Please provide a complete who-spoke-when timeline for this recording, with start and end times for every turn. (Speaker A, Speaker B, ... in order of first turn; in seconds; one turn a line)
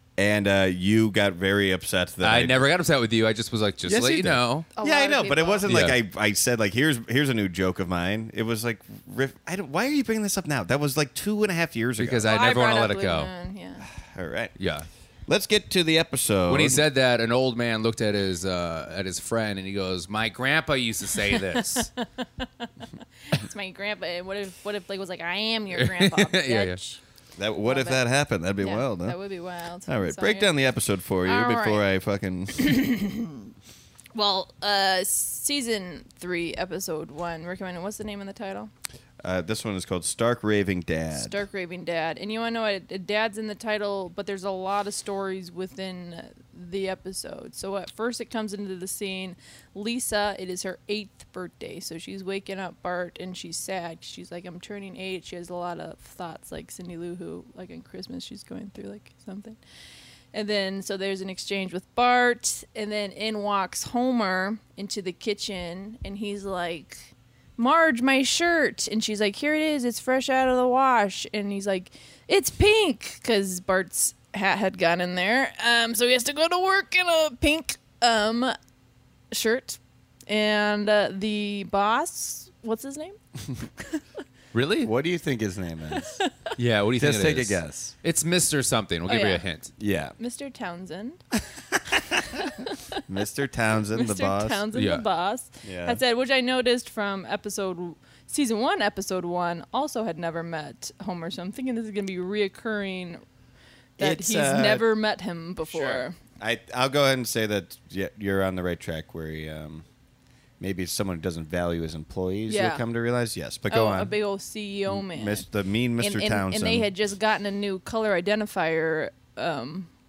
Speaker A: 0.2-2.7
Speaker B: 2.2-4.7
Speaker A: 3.9-12.3
Speaker C: 4.8-5.6
Speaker B: 5.7-6.0
Speaker B: 12.0-13.3
Speaker C: 12.3-13.9
Speaker A: 13.9-14.5
Speaker B: 14.6-14.9
Speaker A: 15.3-16.8
Speaker B: 16.5-21.9
Speaker C: 21.3-22.7
Speaker C: 23.2-27.0
Speaker B: 25.8-26.8
Speaker A: 27.4-29.2
Speaker C: 27.7-28.0
Speaker C: 28.6-30.5
Speaker A: 29.9-32.8
Speaker C: 31.2-31.8
Speaker C: 32.5-33.5
Speaker C: 34.1-38.7
Speaker A: 39.2-41.4
Speaker C: 41.1-59.6
Speaker C: 60.3-78.6
Speaker C: 79.3-83.2
Speaker B: 84.5-84.9
Speaker A: 84.8-86.2
Speaker C: 86.0-86.5
Speaker B: 86.6-89.7
Speaker A: 87.0-87.9
Speaker C: 89.1-89.5
Speaker A: 89.8-90.2
Speaker C: 90.2-91.2
Speaker A: 91.6-92.4
Speaker C: 92.3-93.0
Speaker A: 93.1-94.7
Speaker C: 93.9-103.2
Speaker B: 94.8-95.0
Speaker A: 95.6-96.0
Speaker A: 104.0-104.9
Speaker C: 104.0-106.2
Speaker A: 105.7-109.8
Speaker A: 110.6-114.2
Speaker C: 112.5-112.8
Speaker C: 113.7-115.5
Speaker A: 114.9-116.9
Speaker C: 116.0-119.9